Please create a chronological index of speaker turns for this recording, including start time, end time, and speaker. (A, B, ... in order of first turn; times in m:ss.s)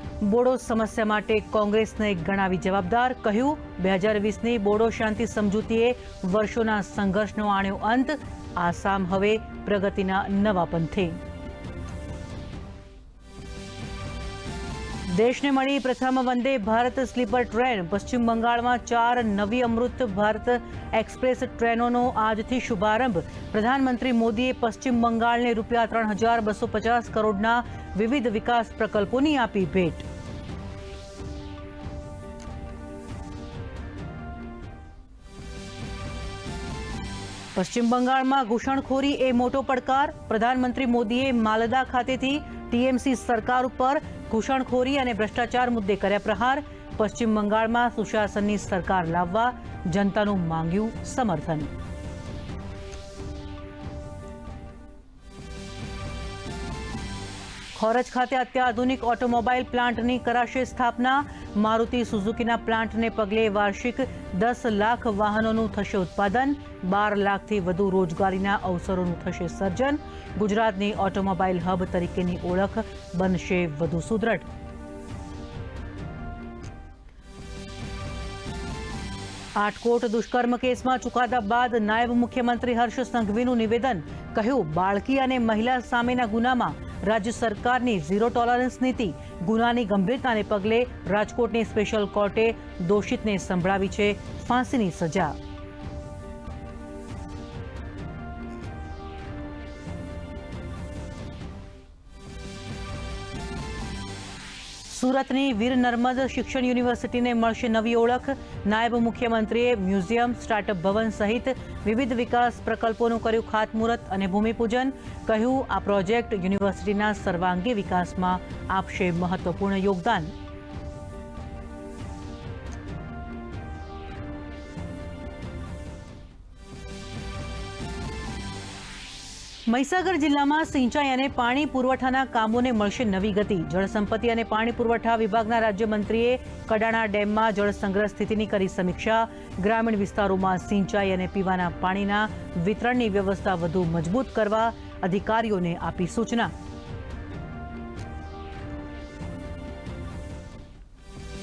0:00.2-0:11.2 A
0:15.1-0:30.1 A
0:37.6-0:51.7 A
0:57.8-1:14.5 A
1:19.6-1:35.4 A
1:44.9-2:00.3 A
2:09.7-2:26.5 A